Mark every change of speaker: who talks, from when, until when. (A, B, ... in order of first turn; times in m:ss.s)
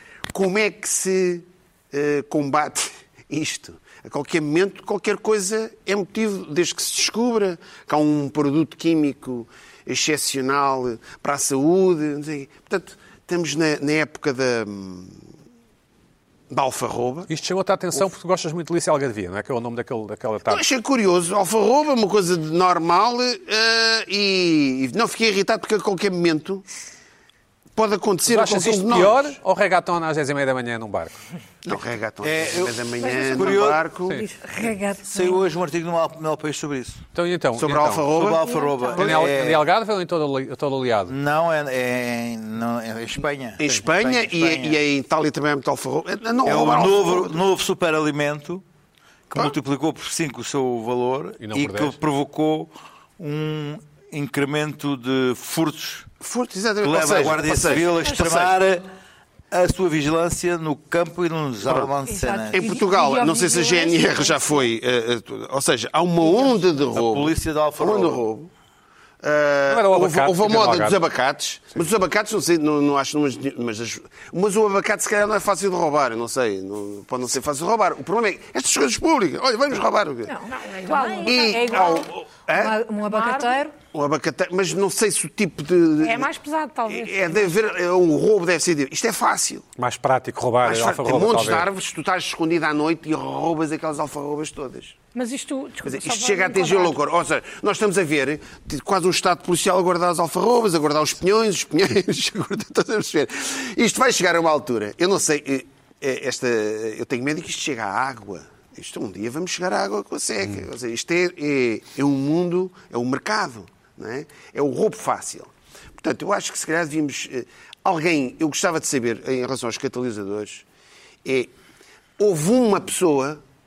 0:00.3-0:15.2 A
0:16.5-0:17.3 A
0:17.3-0:20.6 B
0:20.5-0:26.6 A
0:27.8-0:29.4 A
0:28.3-0:31.2 B
0:31.6-0:34.3 A
0:32.2-0:33.8 C
0:33.0-0:35.1 D
0:34.6-0:35.4 E
0:35.1-0:37.0 C
0:37.2-0:38.1 B
0:37.6-0:39.3 A
0:38.1-0:39.6 C
0:38.4-0:39.0 E
0:39.0-0:41.1 B
0:41.1-0:44.8 C
0:43.6-0:47.4 A
0:46.4-0:48.6 C
0:49.3-0:56.1 C
0:51.4-0:52.0 B
0:56.2-0:58.6 A
0:56.8-0:58.9 C
0:59.5-1:02.6 C
1:01.6-1:01.9 A
1:02.1-1:04.6 E
1:02.5-1:08.5 A
1:06.2-1:06.6 E
1:06.9-1:08.2 C
1:09.2-1:20.4 A
1:09.7-1:11.0 B
1:20.3-1:23.7 E
1:20.5-1:22.0 D
1:21.2-1:22.8 A
1:23.0-1:23.6 D
1:23.9-1:26.3 A
1:26.0-1:27.5 D
1:26.9-1:29.7 A
1:29.8-1:31.7 B
1:30.6-1:35.0 A
1:35.1-1:37.0 D
1:35.8-2:00.7 A
2:01.2-2:01.5 A
2:02.2-2:03.4 A